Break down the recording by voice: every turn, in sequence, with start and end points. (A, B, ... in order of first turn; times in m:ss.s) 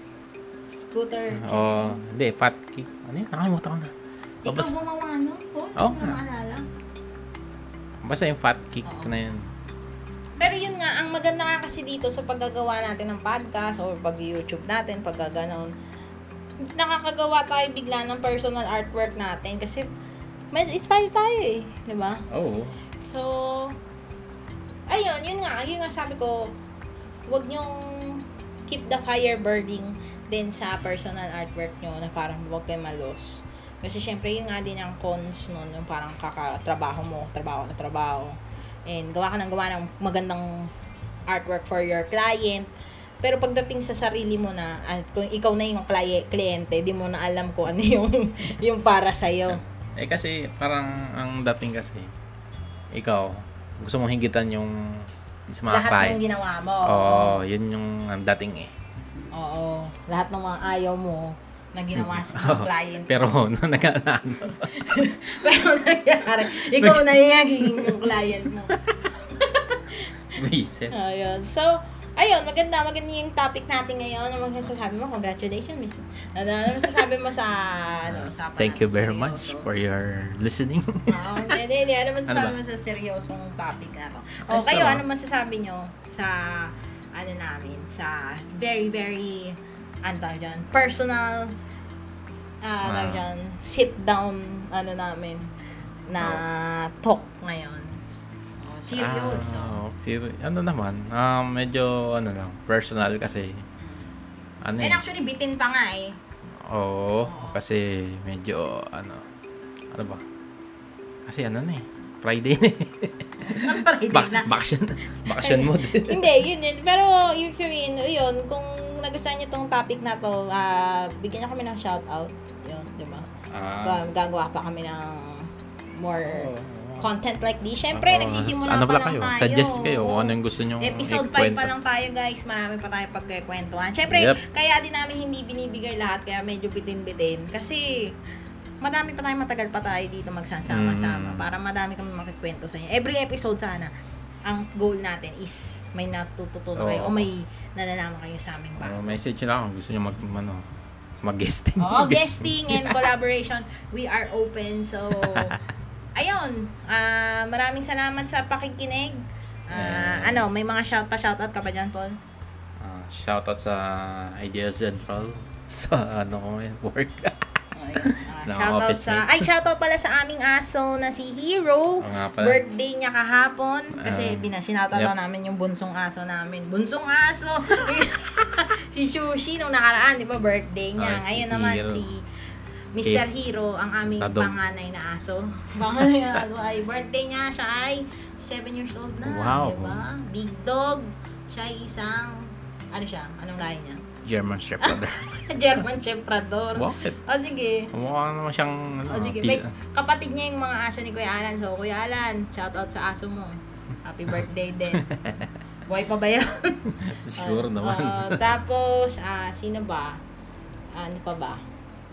0:00.7-0:02.0 A
0:01.3-0:03.9 B
0:04.4-0:06.6 A
0:04.5-0:04.7 B
0:05.8-0:06.2 B
0:08.0-0:09.4 B
0:08.8-0:09.1 A
0:10.4-0:15.7 A
0:16.7-0:19.9 A
0:20.5-0:22.2 A
0:22.3-0:22.8 B
0:23.0-0:23.8 A
0:24.9-0:26.5 A
0:27.3-0:38.4 A
0:38.9-0:40.5 A
0:41.3-0:42.7 A
0:43.2-0:49.6 A
0:49.5-0:52.1 B
0:52.9-0:56.2 B
0:55.7-0:57.4 A
0:56.9-0:58.7 B
0:59.4-1:03.1 A
1:02.0-1:04.7 B
1:04.6-1:10.1 A
1:06.6-1:07.1 B
1:07.6-1:09.1 B
1:10.4-1:11.0 B
1:10.9-1:19.7 A
1:18.1-1:21.6 B
1:21.1-1:31.6 A
1:22.3-1:22.5 B
1:24.5-1:25.0 B
1:32.6-1:35.5 A
1:32.8-1:33.2 B
1:36.1-1:38.0 A
1:38.6-1:39.8 A
1:39.0-1:43.6 B
1:44.6-1:45.0 B
1:44.8-1:46.2 A
1:46.6-1:49.2 B
1:47.2-1:47.6 A
1:49.9-1:50.2 B
1:51.3-1:56.2 B
1:53.5-1:54.5 A
1:55.3-2:03.3 A
2:03.5-2:04.0 B
2:03.8-2:18.0 A
2:06.2-2:07.1 B
2:07.9-2:11.7 B
2:14.1-2:14.4 B
2:18.8-2:23.9 A
2:20.7-2:21.5 B
2:24.5-2:29.2 A
2:26.8-2:27.3 B
2:28.8-2:30.6 B
2:31.2-2:33.1 B
2:31.8-2:35.6 A
2:35.2-2:35.6 B
2:36.2-2:39.2 A
2:39.7-2:42.2 A
2:39.7-2:40.5 B
2:42.8-2:47.5 B
2:47.7-3:02.2 A
2:48.0-2:49.5 B
2:52.0-2:52.6 B
2:54.0-2:55.1 B
3:01.0-3:02.1 B
3:03.0-3:14.0 A
3:04.2-3:04.6 B
3:09.2-3:10.0 B
3:14.2-3:15.5 B
3:14.8-3:17.9 A
3:16.8-3:17.2 B
3:17.9-3:19.7 B
3:19.1-3:25.1 A
3:24.9-3:25.5 B
3:25.9-3:30.2 A
3:27.0-3:28.5 B
3:30.9-3:31.6 A